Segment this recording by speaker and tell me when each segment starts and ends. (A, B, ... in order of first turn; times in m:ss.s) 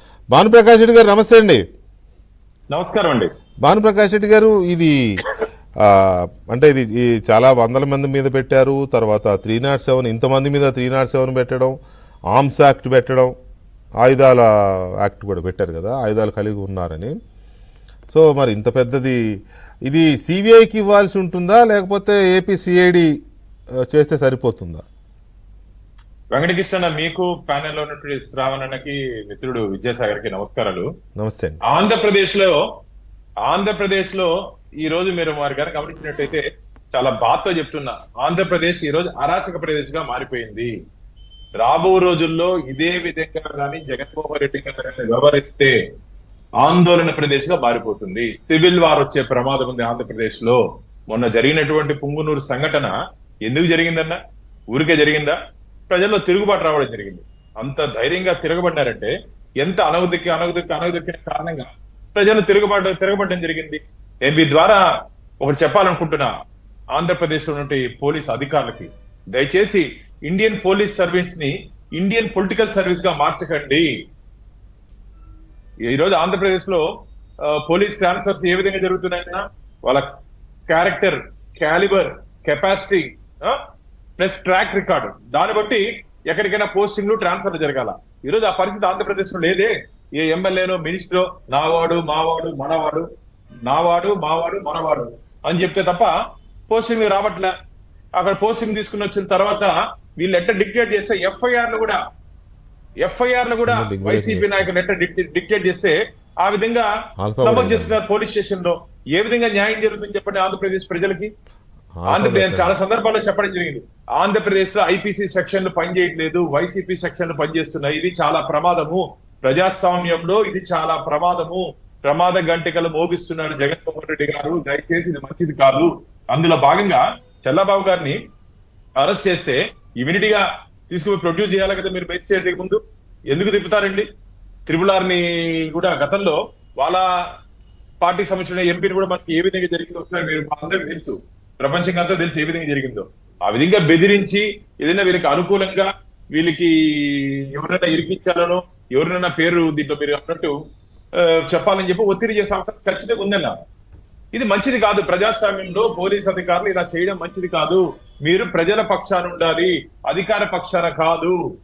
0:00.3-0:01.6 A
0:02.7-0:03.3 B
0:03.6-0:04.9 A
0:06.5-0:11.7 A
0:12.3-0:13.3 A
0:14.0-0:14.4 A
0:15.0-0:17.2 A
0:18.1-0:19.2 A
0:19.9-0:23.1 A
0:23.9-0:24.8 A
0:26.3-0:30.9 B
0:31.2-0:31.6 A
0:31.7-0:32.6 B
0:33.4-0:36.4 B
0:36.9-0:40.7 B
0:41.6-0:45.8 B
0:46.6-0:52.9 B
0:53.4-0:54.2 B
0:54.7-0:55.4 B
0:55.9-1:04.8 B
1:05.4-1:06.3 B
1:06.9-1:13.9 B
1:15.8-1:16.8 B
1:17.4-1:20.1 B
1:20.7-1:23.6 B
1:24.2-1:33.0 B
1:33.7-1:36.1 B
1:36.7-1:37.5 B
1:38.2-1:42.0 B
1:43.0-1:46.9 B
1:43.6-1:44.7 A
1:47.2-1:48.0 A
1:47.4-1:51.3 B
1:52.0-1:52.7 A
1:52.1-2:08.2 B
2:09.0-2:14.0 B
2:14.7-2:17.0 B
2:18.0-2:30.5 B
2:31.2-2:33.5 B
2:34.3-2:41.4 B